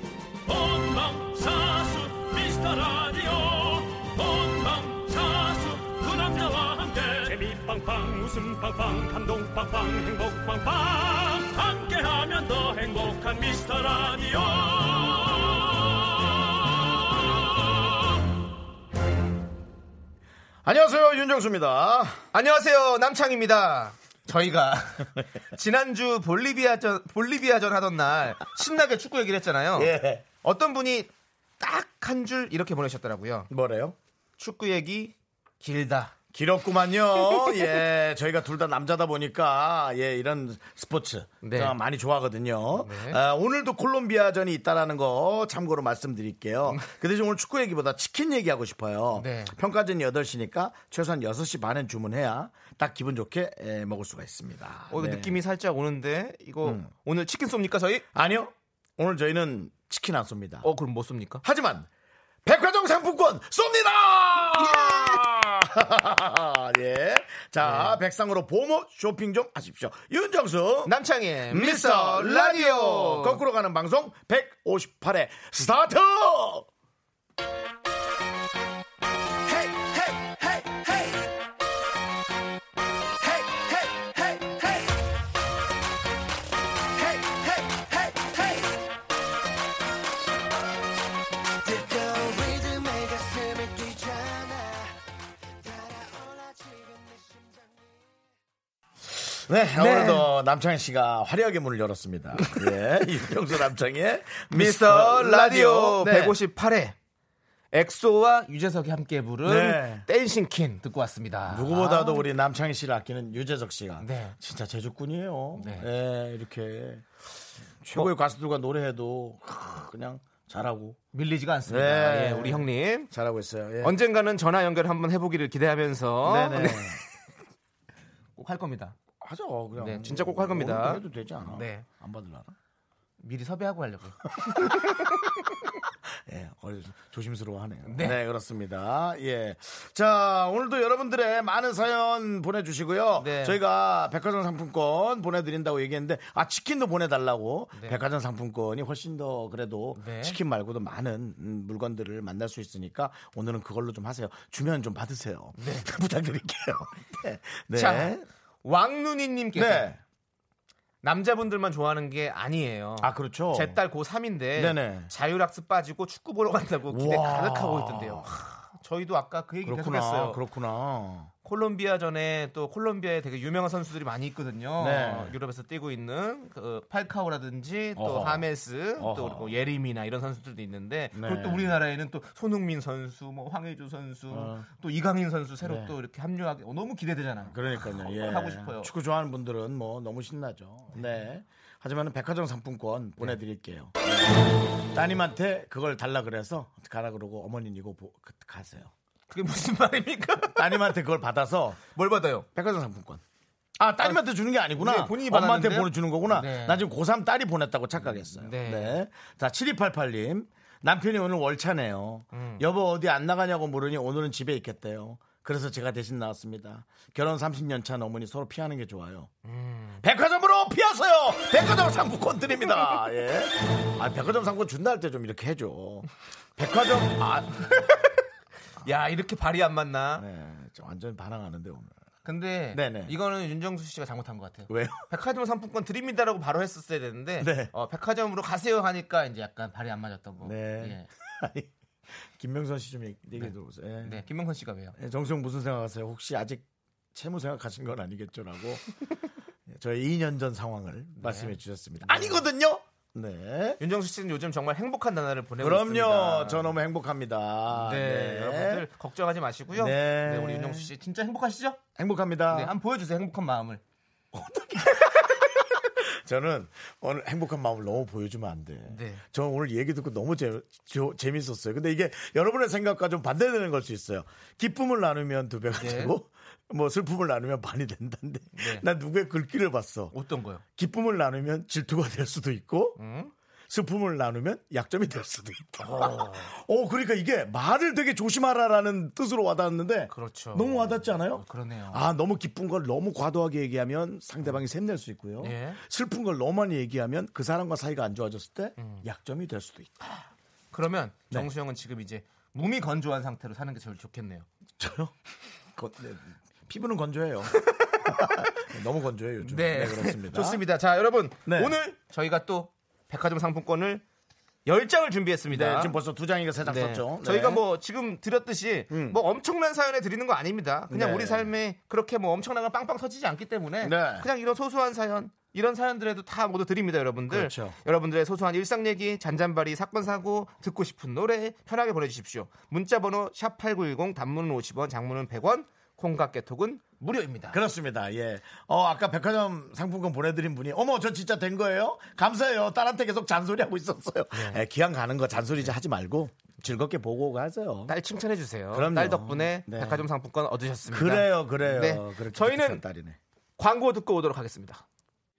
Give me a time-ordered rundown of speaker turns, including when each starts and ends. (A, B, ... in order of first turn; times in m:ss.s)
0:00.4-0:17.9 A
0:20.6-0:22.2 B
0:22.3-0:33.5 C
0:29.7-0:30.2 B
0:33.5-0:34.0 B
0:34.4-0:36.1 C
0:36.3-0:55.4 B
0:41.4-0:41.8 C
0:42.8-0:43.2 C
0:49.1-0:49.6 C
0:54.9-0:58.0 C
0:56.6-0:56.9 B
0:58.1-1:00.7 B
1:00.6-1:01.4 C
1:01.4-1:01.9 B
1:02.4-1:10.9 B
1:04.6-1:05.2 C
1:07.6-1:08.0 C
1:10.8-1:13.4 C
1:11.5-1:16.7 B
1:19.5-1:21.1 B
1:23.2-1:24.9 B
1:27.0-1:28.6 B
1:31.6-1:34.9 B
1:35.7-1:37.0 B
1:39.1-1:46.4 B
1:39.8-1:40.3 C
1:44.5-1:47.0 C
1:47.7-1:52.2 C
1:49.4-1:50.1 B
1:51.5-1:57.1 B
1:54.0-1:54.4 C
1:55.6-1:55.9 C
1:57.8-2:01.0 B
2:01.1-2:03.1 C
2:01.7-2:04.0 B
2:03.8-2:07.0 C
2:06.2-2:07.0 B
2:08.4-2:09.0 C
2:09.2-2:12.5 B
2:09.8-2:11.9 C
2:13.2-2:15.0 C
2:14.4-2:14.7 B
2:16.1-2:38.2 B
2:17.8-2:18.2 C
2:23.2-2:23.6 C
2:27.7-2:28.0 C
2:29.9-2:30.4 C
2:35.6-2:35.8 C
2:37.7-2:39.9 C
2:39.5-2:40.0 B
2:41.0-2:50.4 C
2:43.0-2:43.8 B
2:44.6-2:45.1 B
2:46.9-2:48.3 B
2:49.6-2:51.3 B
2:51.4-3:08.9 C
2:54.8-2:55.3 B
2:58.0-2:59.5 B
3:01.1-3:01.8 B
3:04.3-3:04.6 B
3:05.6-3:05.9 B
3:07.5-3:18.9 B
3:19.3-3:20.9 C
3:20.6-3:21.8 B
3:21.9-3:22.4 C
3:22.5-3:23.2 B
3:23.8-3:39.3 B
3:24.7-3:26.8 C
3:28.0-3:29.0 C
3:32.3-3:32.6 C
3:39.4-3:40.0 C
3:40.0-3:47.9 B
3:48.8-3:50.2 C
3:50.2-3:52.0 B
3:52.2-4:01.1 C
3:52.7-3:53.1 B
3:54.7-3:55.1 B
3:57.4-3:57.7 B
4:00.4-4:04.2 B
4:03.4-4:04.9 C
4:05.0-4:08.8 B
4:09.7-4:13.8 B
4:11.2-4:12.4 C
4:13.8-4:16.7 C
4:15.6-4:18.8 B
4:17.7-4:21.8 C
4:19.7-4:20.9 B
4:22.0-4:22.7 B
4:22.5-4:23.8 C
4:24.3-4:25.4 B
4:25.9-4:40.1 B
4:28.9-4:29.2 C
4:35.7-4:36.1 C
4:38.5-4:38.8 C
4:40.1-4:40.6 C
4:40.8-4:43.0 B
4:43.0-4:43.3 C
4:43.7-5:00.0 B
4:45.8-4:46.5 C
4:50.1-4:52.0 C
4:55.4-4:55.8 C
4:58.8-4:59.0 C
5:00.7-5:04.5 C
5:04.8-5:05.1 B
5:05.8-5:10.6 B
5:07.5-5:08.6 C
5:09.4-5:14.0 C
5:11.4-5:11.8 B
5:14.6-5:16.0 C
5:15.5-5:17.6 B
5:16.6-5:37.6 C
5:18.9-5:19.2 B
5:20.9-5:21.5 B
5:23.8-5:24.3 B
5:27.3-5:27.8 B
5:37.5-5:47.9 B
5:44.3-5:44.6 C
5:47.9-5:52.8 C
5:48.7-5:50.1 B
5:50.9-5:53.2 B
5:53.6-5:54.8 C